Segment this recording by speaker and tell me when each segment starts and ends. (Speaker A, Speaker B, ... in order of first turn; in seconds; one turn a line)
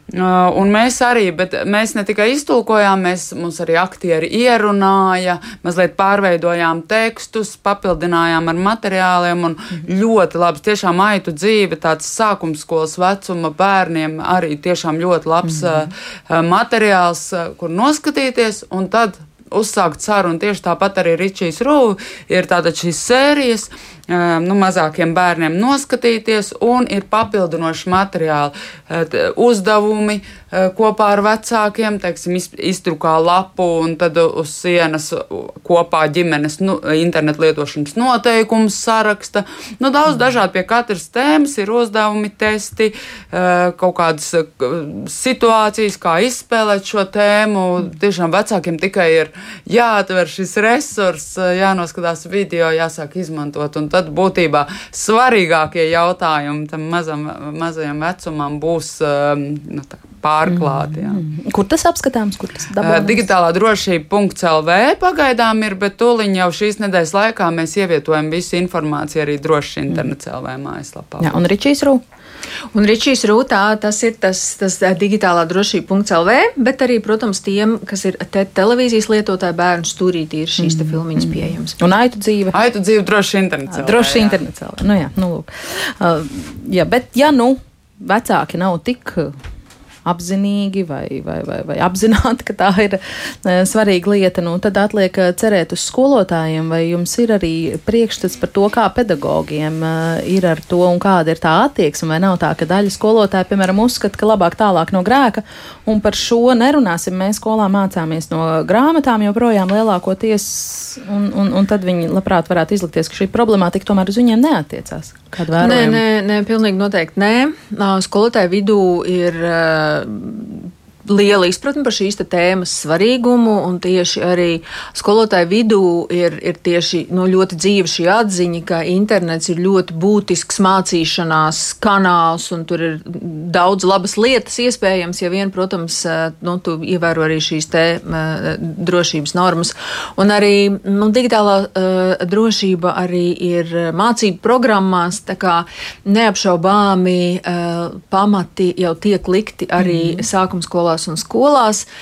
Speaker A: 0.1-61.2
Speaker B: 15.4-15.9
Speaker B: 60.5-63.3
Speaker A: 62.8-71.4
Speaker B: 71.2-72.0
Speaker C: 72.7-81.7
Speaker B: 80.6-82.5
Speaker A: 82.5-84.4
Speaker B: 83.7-89.3
Speaker B: 90.0-116.0
Speaker C: 115.6-151.8
Speaker B: 149.8-150.2